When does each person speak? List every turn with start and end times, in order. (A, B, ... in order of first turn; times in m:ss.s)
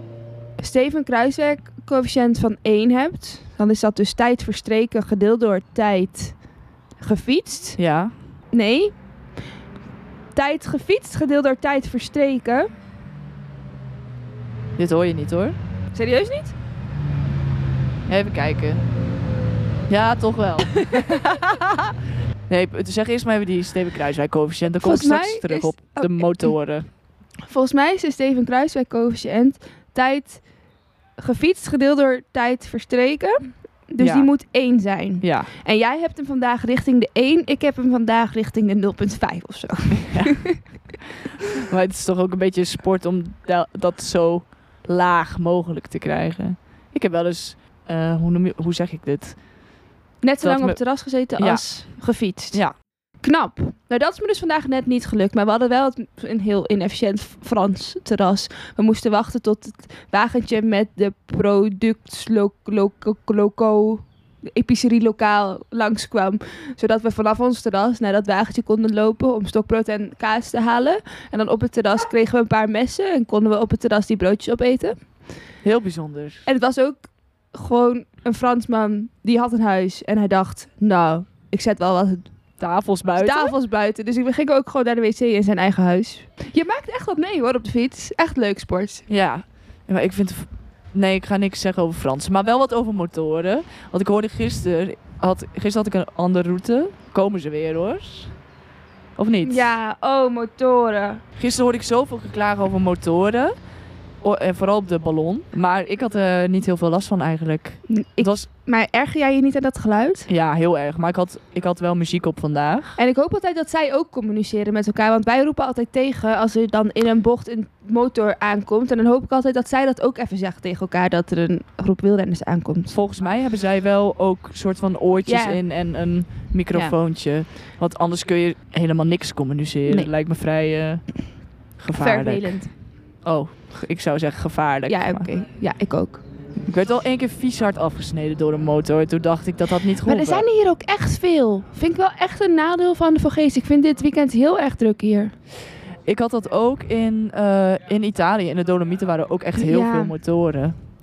0:00.6-0:06.4 A
0:07.0-0:07.8 A
0:07.8-0:08.1 B
0:08.5-0:08.9 A
0:10.3-0:12.7 A
0:14.8-0:15.6 B
0:15.9-0:16.5 A
0:18.1-0:18.8 B
0:19.9-0:21.2 B
0:20.8-0:21.7 A
0:22.5-0:26.9 B
0:24.8-0:26.5 A
0:27.5-0:30.4 A
0:31.2-0:40.6 A
0:34.0-0:34.3 B
0:35.2-0:35.5 B
0:41.6-0:49.5 B
0:50.2-0:52.6 A
0:50.4-0:51.7 B
0:53.2-1:15.0 A
1:15.6-1:16.4 B
1:16.4-1:17.0 A
1:17.5-1:22.3 A
1:22.6-1:23.5 B
1:23.2-1:29.0 A
1:29.1-1:38.3 B
1:39.2-1:39.6 B
1:39.4-1:41.2 A
1:41.4-1:43.5 B
1:44.2-1:48.5 B
1:47.9-1:50.3 A
1:50.3-1:53.0 B
1:53.0-2:02.9 A
2:02.9-2:15.3 B
2:05.2-2:05.6 A
2:11.9-2:12.7 A
2:14.9-2:16.2 A
2:16.6-2:20.4 B
2:20.0-2:25.3 A
2:26.0-2:30.7 B
2:29.6-2:30.1 A